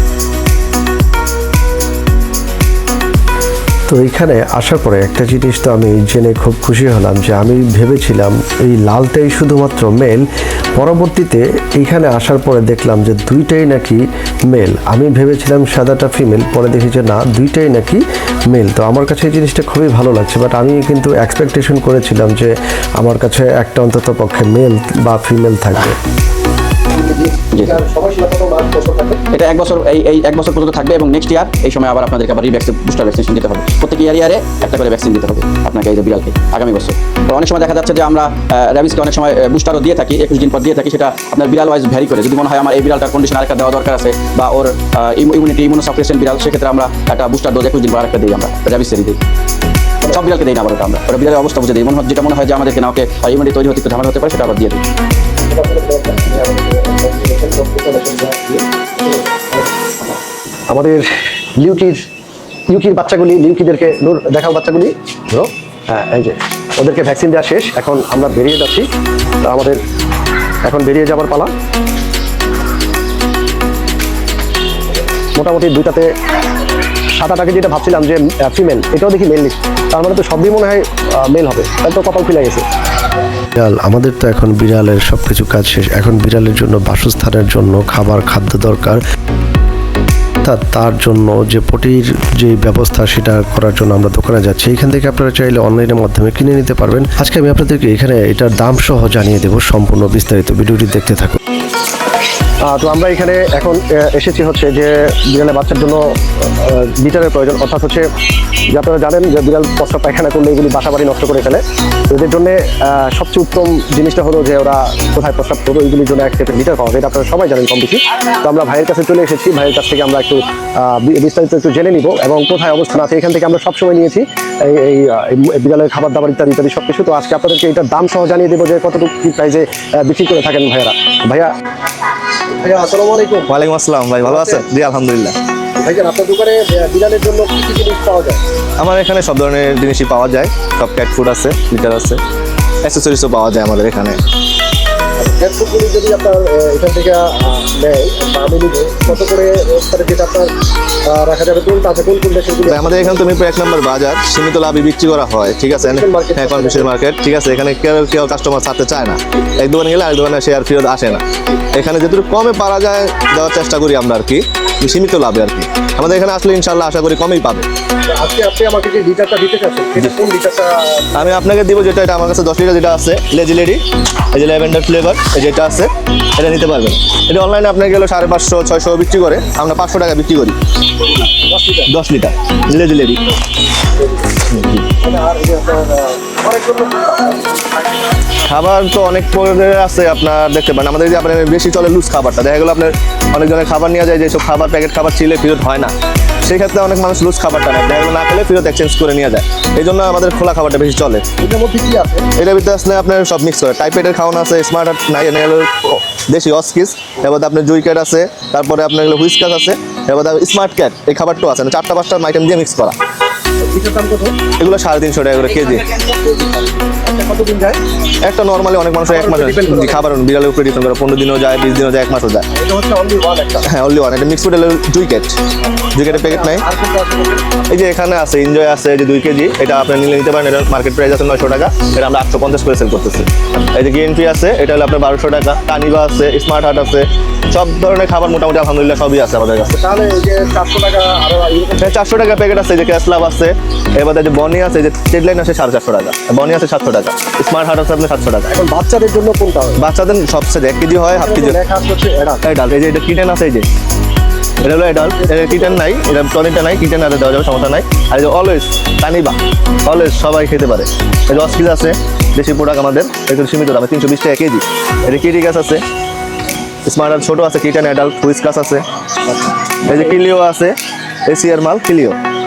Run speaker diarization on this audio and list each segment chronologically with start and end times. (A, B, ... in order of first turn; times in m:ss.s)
0:03.9-0:10.2 A
0:10.8-0:26.0 A
0:26.9-0:29.2 B
0:27.5-0:27.8 C
0:29.3-0:49.2 C
0:50.1-0:54.8 C
0:55.5-0:59.7 B
1:00.7-1:01.1 B
1:01.6-1:02.0 B
1:02.7-1:08.9 B
1:09.4-1:09.8 B
1:10.7-1:11.5 B
1:15.4-1:16.1 B
1:17.2-1:22.6 B
1:23.6-1:29.0 A
1:30.4-1:41.4 A
1:42.7-1:48.1 B
1:48.7-2:11.5 B
2:12.6-2:13.5 B
2:13.5-2:15.4 D
2:14.2-2:14.6 B
2:15.8-2:18.4 B
2:18.8-2:22.2 D
2:22.8-2:24.2 D
2:25.2-2:30.5 B
2:31.1-2:33.4 B
2:32.6-2:47.7 D
2:35.7-2:36.9 B
2:48.1-2:51.3 B
2:51.1-2:53.8 D
2:54.3-3:00.6 D
3:01.4-3:01.9 B
3:01.9-3:03.2 D
3:04.0-3:04.4 B
3:04.5-3:04.9 D
3:05.0-3:08.2 B
3:08.4-3:21.2 D
3:21.4-3:22.2 B
3:22.4-3:33.0 D
3:33.6-3:34.4 B
3:34.6-3:35.8 D
3:35.6-3:37.8 B
3:38.2-3:42.4 D
3:39.1-3:40.1 B
3:42.5-3:43.6 B
3:43.6-3:45.4 D
3:46.0-3:46.6 D
3:46.0-3:47.5 B
3:47.7-3:59.8 D
3:59.6-4:02.0 B
4:01.8-4:08.5 D
4:08.5-4:09.8 B
4:09.8-4:11.6 D
4:11.1-4:12.4 B
4:12.4-4:13.7 D
4:14.6-4:25.8 D
4:14.9-4:15.8 B
4:26.8-4:28.8 D
4:29.3-4:30.2 B
4:29.8-4:30.7 D
4:31.3-4:32.2 D